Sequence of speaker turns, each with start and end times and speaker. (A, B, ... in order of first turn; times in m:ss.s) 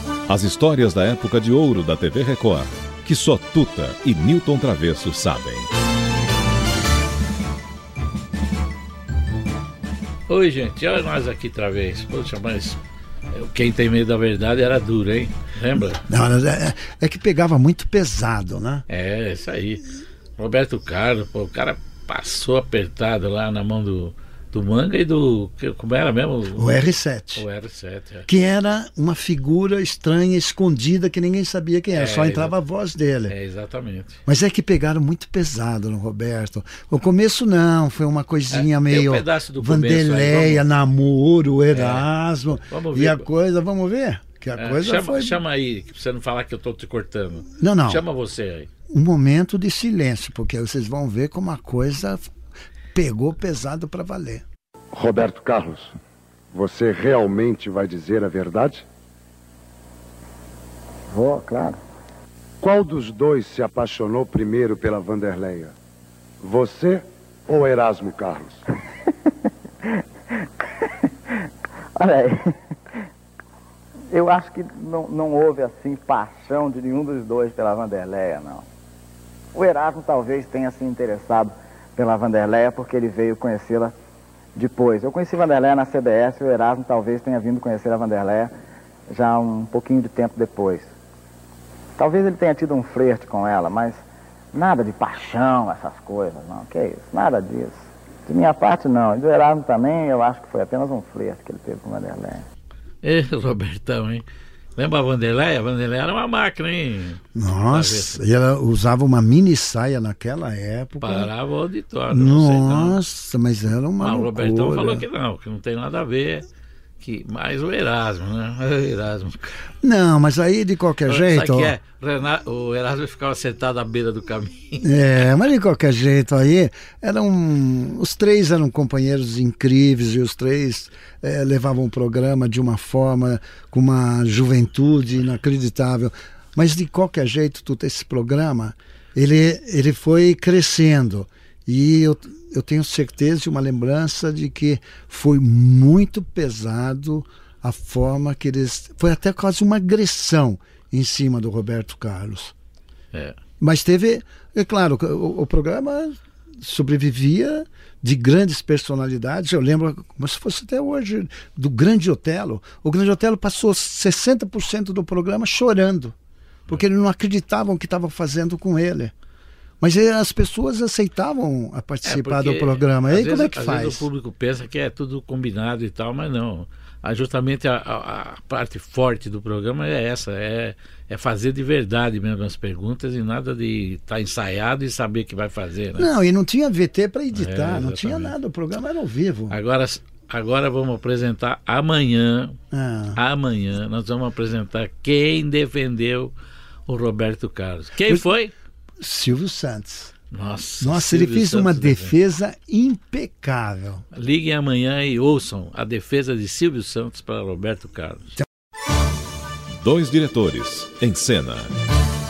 0:00.3-0:05.7 A
0:10.3-0:12.8 B
0:13.3-0:16.0 B
0:16.0-0:18.8 C
0:18.9-0:28.2 B
0:26.6-0:27.4 C
0:28.3-0:33.3 C
0:31.9-0:32.6 B
0:33.3-0:34.2 B
0:34.2-0:45.4 C
0:38.5-0:40.7 B
0:41.7-0:42.1 B
0:42.7-0:43.2 B
0:44.6-0:48.7 B
0:47.6-0:48.0 C
0:48.9-0:52.3 C
0:52.9-0:54.4 C
0:54.9-0:56.0 D
0:56.5-0:58.8 D
1:01.1-1:01.8 E
1:02.6-1:05.7 D
1:06.4-1:08.6 D
1:10.8-1:11.0 E
1:11.9-1:12.6 E
1:14.1-1:18.7 E
1:19.5-1:24.0 E
1:24.6-1:28.5 E
1:29.1-1:30.9 E
1:32.0-1:42.4 E
1:43.0-1:44.2 B
1:44.8-1:48.2 B
1:47.3-1:51.3 C
1:51.0-1:53.0 B
1:52.1-1:55.0 C
1:54.0-1:56.5 B
1:57.0-1:59.5 B
1:59.8-2:01.8 C
2:01.0-2:05.2 B
2:04.8-2:32.5 C
2:33.6-2:46.2 C
2:46.7-2:49.1 C
2:49.8-2:54.1 C
2:52.0-3:06.1 B
3:06.0-3:09.6 C
3:07.3-3:08.3 B
3:09.5-3:12.6 B
3:12.7-3:13.2 C
3:13.2-3:16.3 B
3:16.9-3:18.5 B
3:19.0-3:20.1 C
3:20.3-3:22.2 B
3:20.8-3:24.0 C
3:24.1-3:28.3 B
3:29.8-3:31.7 A